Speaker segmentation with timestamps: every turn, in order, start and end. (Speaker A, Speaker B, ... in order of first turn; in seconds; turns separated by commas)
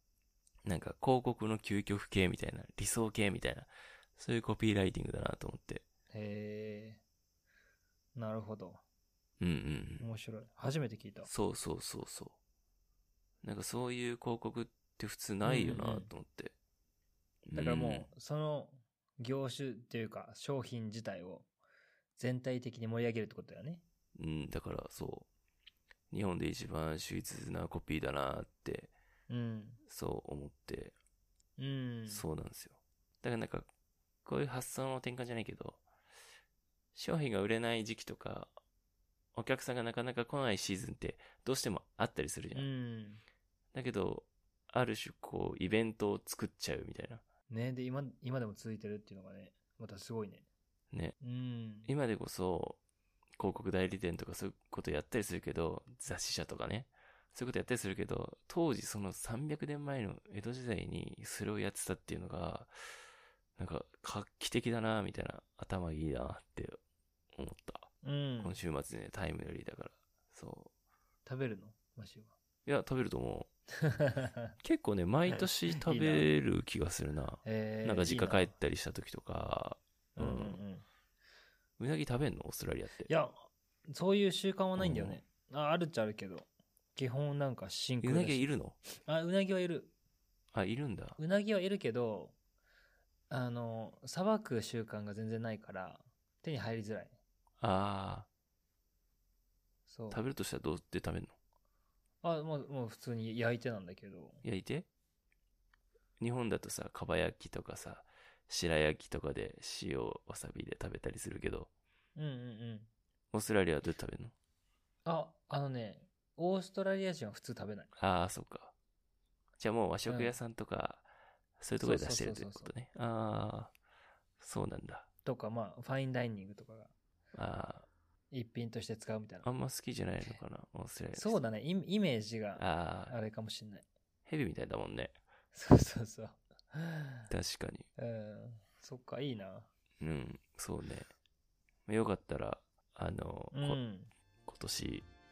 Speaker A: 0.7-5.8, Speaker B: 6.1-7.0, Speaker B: 8.2-8.8, Speaker A: 9.4-10.1, Speaker B: 10.0-11.3, Speaker A: 11.2-12.4, Speaker A: 13.4-16.6, Speaker B: 15.4-16.1, Speaker A: 17.4-18.1, Speaker B: 17.5-21.5, Speaker B: 22.1-23.8, Speaker A: 24.1-25.3, Speaker A: 26.1-28.9, Speaker B: 29.3-29.8, Speaker A: 29.9-30.9, Speaker B: 31.6-32.2, Speaker A: 32.1-33.7, Speaker A: 34.2-35.8, Speaker A: 36.9-38.5, Speaker A: 39.4-42.7, Speaker B: 42.5-43.2, Speaker A: 43.7-47.2, Speaker B: 47.5-50.5, Speaker A: 50.9-51.2, Speaker B: 51.2-51.9, Speaker A: 51.8-52.8, Speaker A: 53.4-62.7, Speaker A: 63.6-66.8, Speaker A: 67.4-70.7, Speaker B: 68.0-68.6, Speaker B: 71.2-72.3, Speaker A: 72.7-73.5, Speaker B: 74.0-74.5, Speaker A: 74.6-80.6, Speaker B: 75.3-76.3, Speaker B: 77.4-78.5, Speaker B: 80.2-80.8, Speaker A: 81.8-83.1, Speaker B: 83.1-89.9, Speaker A: 84.8-85.2, Speaker A: 88.0-88.8, Speaker A: 90.5-91.2, Speaker B: 91.2-92.3, Speaker B: 93.3-97.2, Speaker A: 97.6-98.3, Speaker B: 99.9-100.2, Speaker A: 100.1-101.3, Speaker B: 102.2-104.4, Speaker A: 104.4-104.9, Speaker A: 106.2-111.7, Speaker B: 112.2-112.9, Speaker A: 113.3-114.3, Speaker B: 115.0-117.9, Speaker A: 118.0-118.7, Speaker A: 119.6-121.1, Speaker B: 120.0-120.4, Speaker A: 121.6-123.7, Speaker B: 121.8-122.7, Speaker A: 124.4-125.1, Speaker B: 125.2-126.9, Speaker A: 127.3-127.9, Speaker B: 128.3-129.5, Speaker A: 129.4-131.4, Speaker B: 131.1-133.8, Speaker A: 132.6-133.2, Speaker A: 134.2-135.2, Speaker B: 135.5-137.3, Speaker A: 137.3-137.9, Speaker B: 138.0-139.7, Speaker A: 140.0-141.1, Speaker A: 141.9-143.8, Speaker B: 143.5-144.1, Speaker A: 144.5-145.1